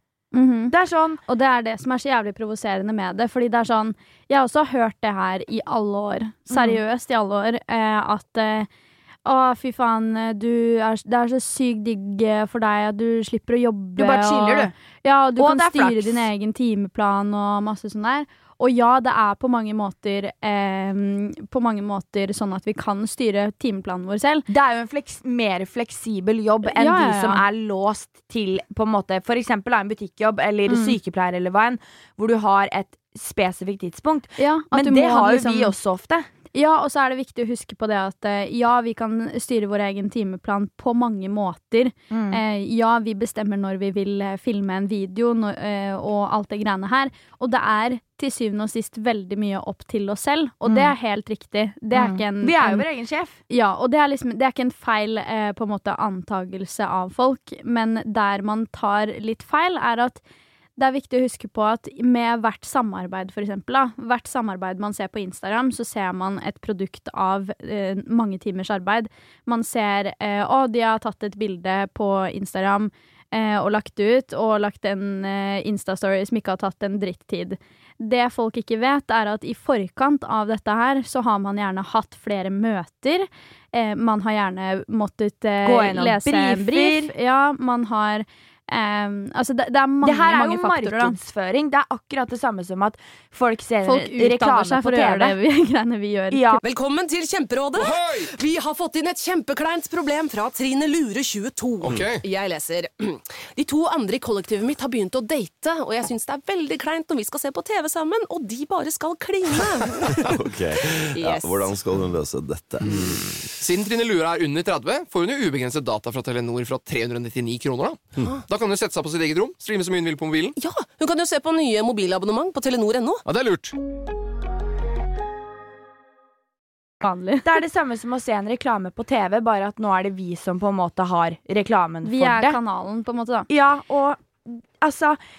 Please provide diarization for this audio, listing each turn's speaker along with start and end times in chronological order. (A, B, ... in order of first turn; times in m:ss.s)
0:00.3-0:00.7 A
0:00.7-0:01.2 B
0:01.3-0:08.7 A
0:06.5-0:06.8 B
0:09.2-0:24.5 A
0:14.0-0:14.7 B
0:15.4-0:16.3 B
0:24.5-0:36.3 B
0:26.6-0:27.4 A
0:30.7-0:31.0 A
0:34.4-0:35.8 A
0:36.5-0:52.8 A
0:42.1-0:42.4 B
0:50.7-0:50.9 B
0:51.9-0:53.4 B
0:53.5-1:00.2 A
1:00.8-1:31.2 A
1:25.6-1:27.1 B
1:30.0-1:35.4 B
1:33.8-1:36.6 A
1:36.3-1:36.6 B
1:36.6-1:51.8 C
1:37.8-1:38.3 D
1:41.8-1:42.2 D
1:50.1-1:53.6 E
1:53.6-2:00.5 D
2:00.6-2:03.2 C
2:03.3-2:03.8 D
2:07.0-2:07.5 A
2:07.4-2:12.6 B
2:12.0-2:13.5 A
2:13.5-2:15.2 B